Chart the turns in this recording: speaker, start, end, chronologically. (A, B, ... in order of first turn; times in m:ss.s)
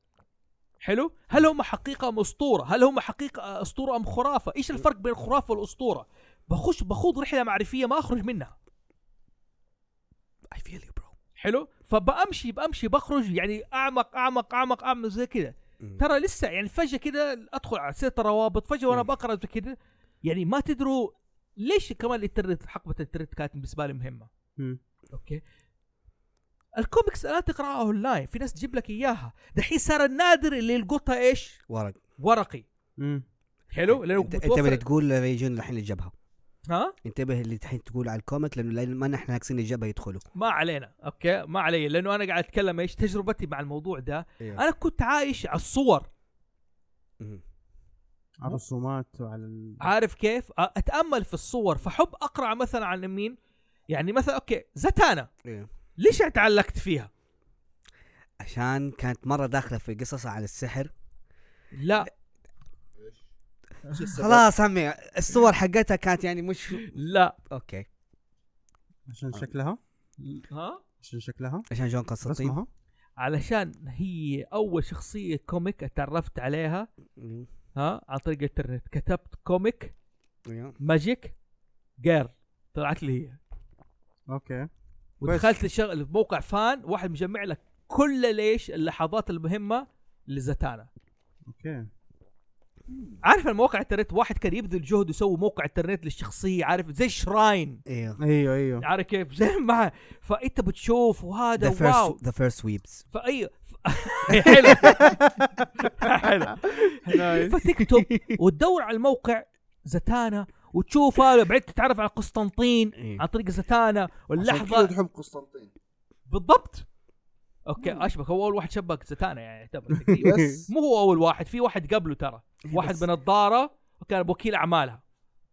0:00.8-0:08.5 A
0:10.5-0:11.1 B
0:11.4-0:24.3 A
0:25.1-0:25.4 A
0:26.8-0:31.6 A
0:31.7-0:32.0 B
0:32.2-0:32.6 A
0:33.0-0:33.2 C
0:33.7-0:34.8 A
0:33.9-0:36.1 B
0:36.7-0:36.9 A
0:37.0-0:40.2 B
0:40.4-0:46.1 A
0:48.4-0:49.9 C
0:49.8-0:53.4 A
0:53.9-0:55.3 A
0:56.0-0:57.1 A
0:58.4-1:00.9 B
1:01.8-1:02.1 A
1:03.9-1:04.4 D
1:04.1-1:06.9 B
1:06.7-1:07.3 A
1:07.5-1:07.8 B
1:09.1-1:09.8 C
1:10.2-1:10.8 A
1:11.0-1:11.6 C
1:11.7-1:12.6 B
1:12.2-1:12.7 C
1:13.2-1:16.9 A
1:17.2-1:17.5 B
1:17.8-1:19.9 A
1:20.5-1:20.7 B
1:20.8-1:21.3 A
1:22.0-1:23.4 A
1:24.3-1:24.7 C
1:25.2-1:30.9 A
1:25.2-1:25.5 C
1:31.5-1:31.9 C
1:33.2-1:37.8 A
1:37.9-1:38.2 B
1:38.2-1:38.8 C
1:38.8-1:42.2 A
1:41.6-1:43.0 B
1:43.1-1:45.2 A
1:44.7-1:47.5 C
1:45.8-1:54.9 A
1:47.9-1:48.3 B
1:53.0-1:53.2 B
1:54.4-1:55.7 D
1:56.3-1:56.8 A
1:57.6-2:05.0 A
2:00.0-2:00.6 C
2:02.7-2:03.0 B